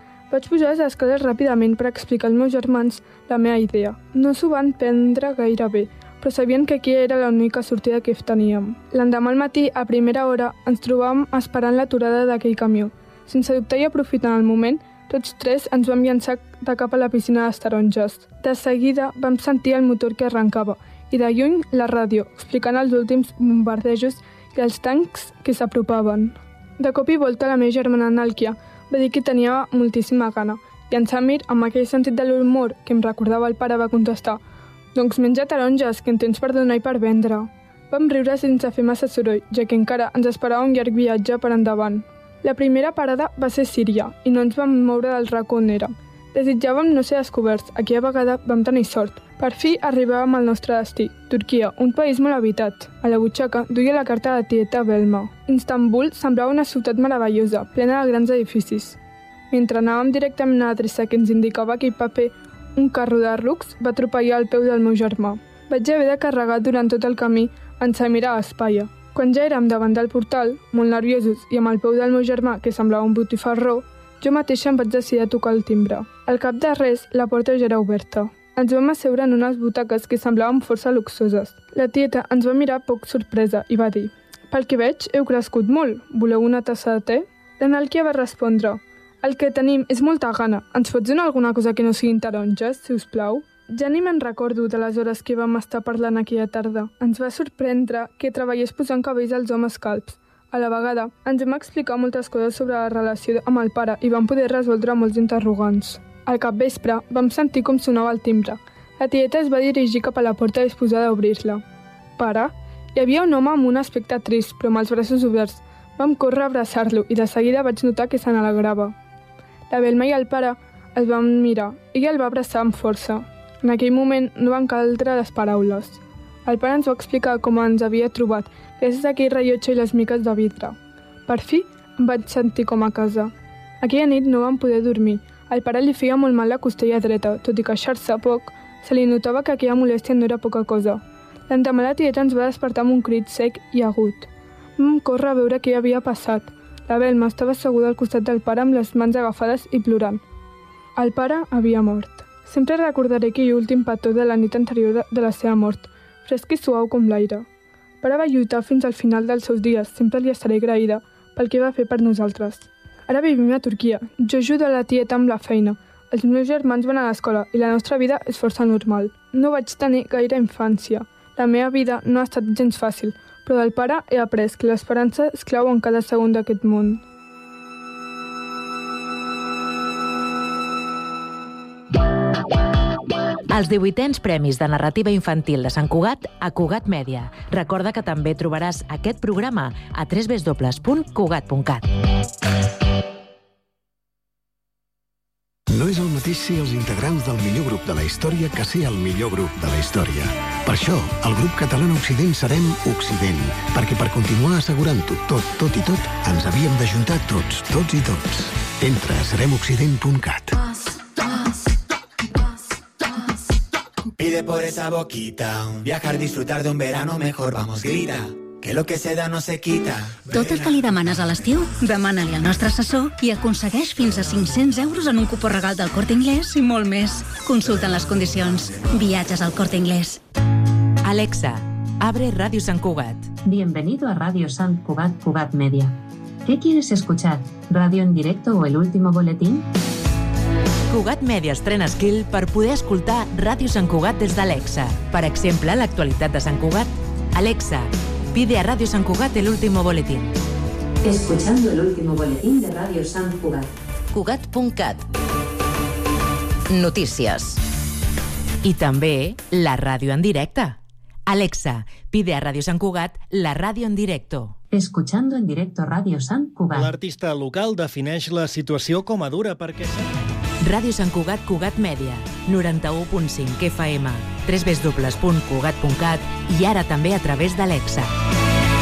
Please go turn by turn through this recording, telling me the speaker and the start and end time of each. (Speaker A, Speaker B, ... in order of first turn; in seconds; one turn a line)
Speaker A: 0.3-34.4
Speaker A: 34.9-59.0
Speaker A: 59.5-111.6
Speaker A: 112.2-118.9
Speaker A: 119.7-130.8
Speaker A: 131.3-150.2
Speaker A: 151.0-157.4
Speaker A: 158.0-177.0
Speaker B: 183.5-191.9
Speaker C: 195.7-210.6
Speaker D: 214.2-220.8
Speaker E: 220.3-230.2
Speaker B: 231.0-233.3
Speaker F: 233.4-239.7
Speaker B: 240.9-250.3
Speaker B: 251.0-255.0
Speaker B: 256.7-257.6
Speaker B: 258.6-264.6
Speaker F: 264.7-266.9
Speaker G: 266.7-270.1
Speaker B: 270.6-278.1